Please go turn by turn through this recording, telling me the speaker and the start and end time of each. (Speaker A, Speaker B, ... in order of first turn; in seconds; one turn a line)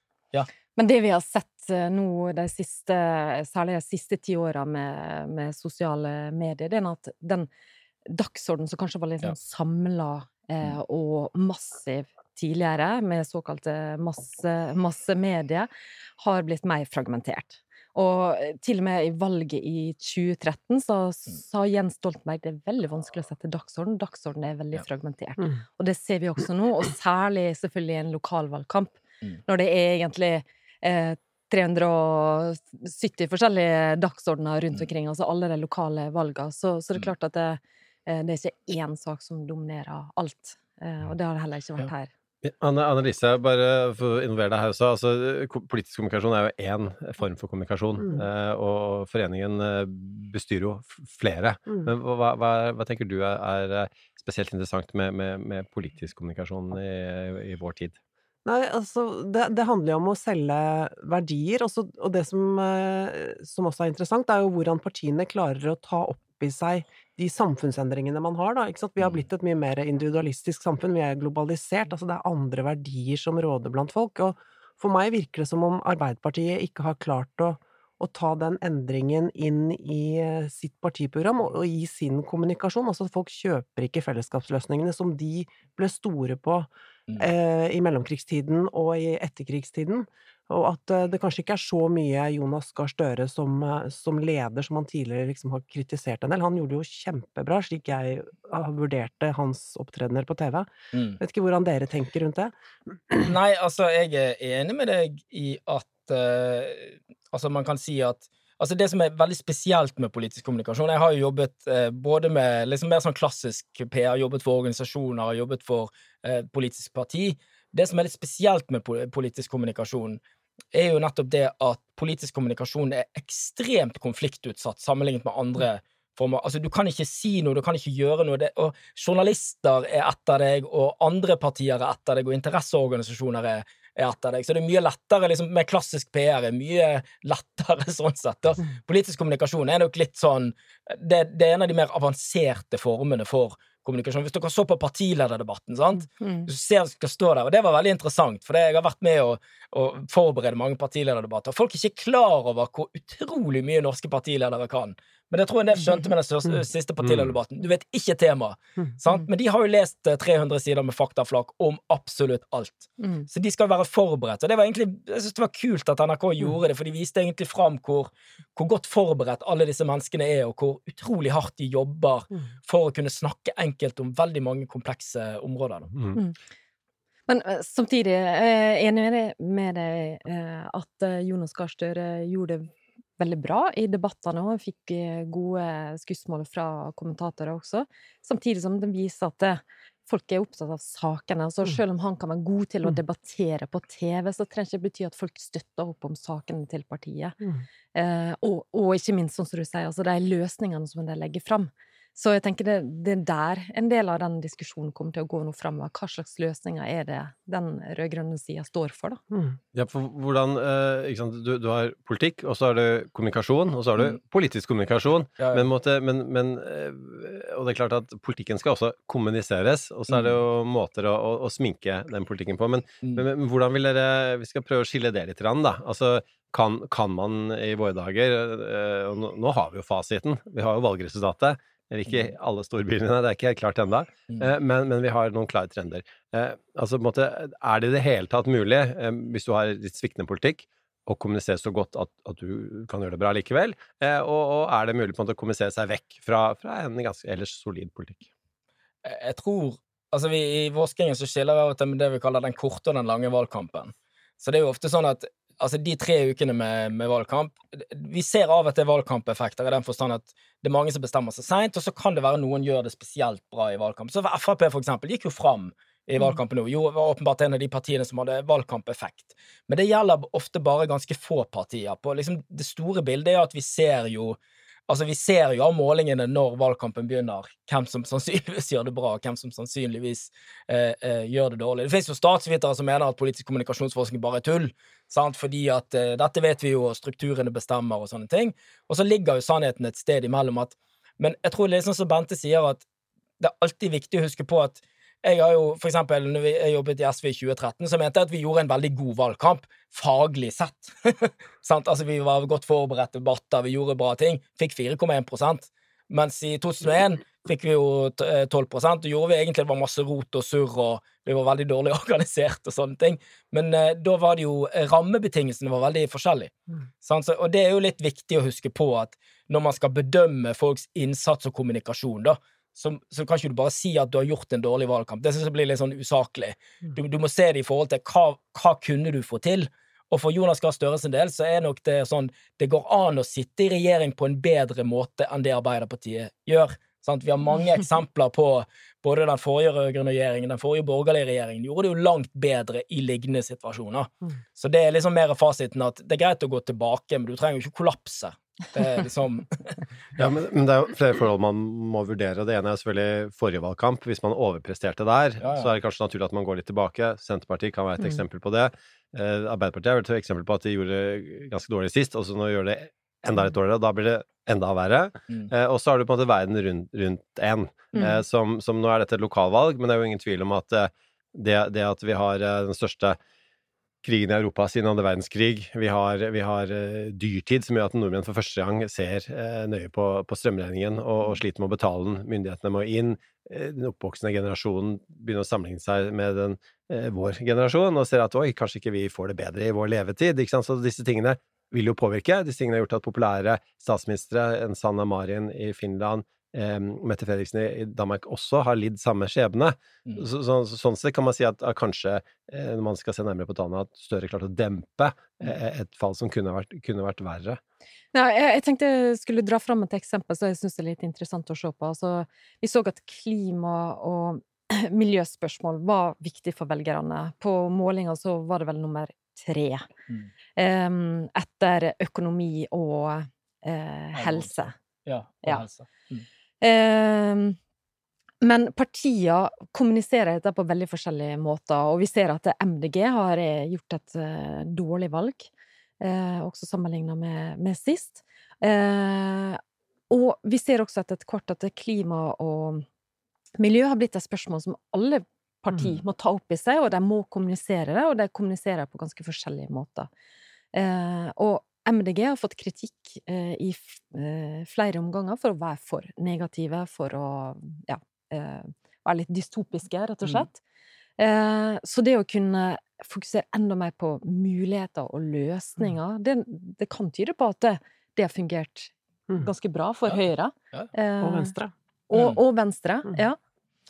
Speaker A: 0.8-7.5
Speaker A: 8.1-15.7
Speaker A: 16.2-42.1
Speaker B: 42.4-58.0
Speaker C: 58.4-100.7
Speaker D: 100.9-101.2
Speaker C: 101.2-102.5
Speaker D: 103.2-120.2
Speaker D: 120.7-175.9
Speaker A: 146.2-146.5
Speaker A: 177.3-197.4
Speaker A: 197.9-209.2
Speaker C: 209.3-209.6
Speaker B: 209.7-248.3
Speaker D: 215.4-215.7
Speaker D: 249.0-292.9
Speaker D: 293.4-350.3
Speaker B: 350.1-373.2
Speaker D: 355.4-355.7
Speaker A: 367.9-368.2
Speaker B: 374.0-407.6
Speaker A: 408.1-419.9
Speaker A: 420.6-424.7
Speaker D: 424.1-426.2
Speaker A: 426.6-427.6
Speaker A: 428.4-435.5
Speaker A: 436.0-439.6
Speaker A: 440.1-442.9
Speaker A: 443.6-450.1
Speaker A: 450.7-460.6
Speaker A: 461.2-471.5
Speaker C: 471.2-471.7
Speaker A: 472.1-473.4
Speaker D: 472.1-472.4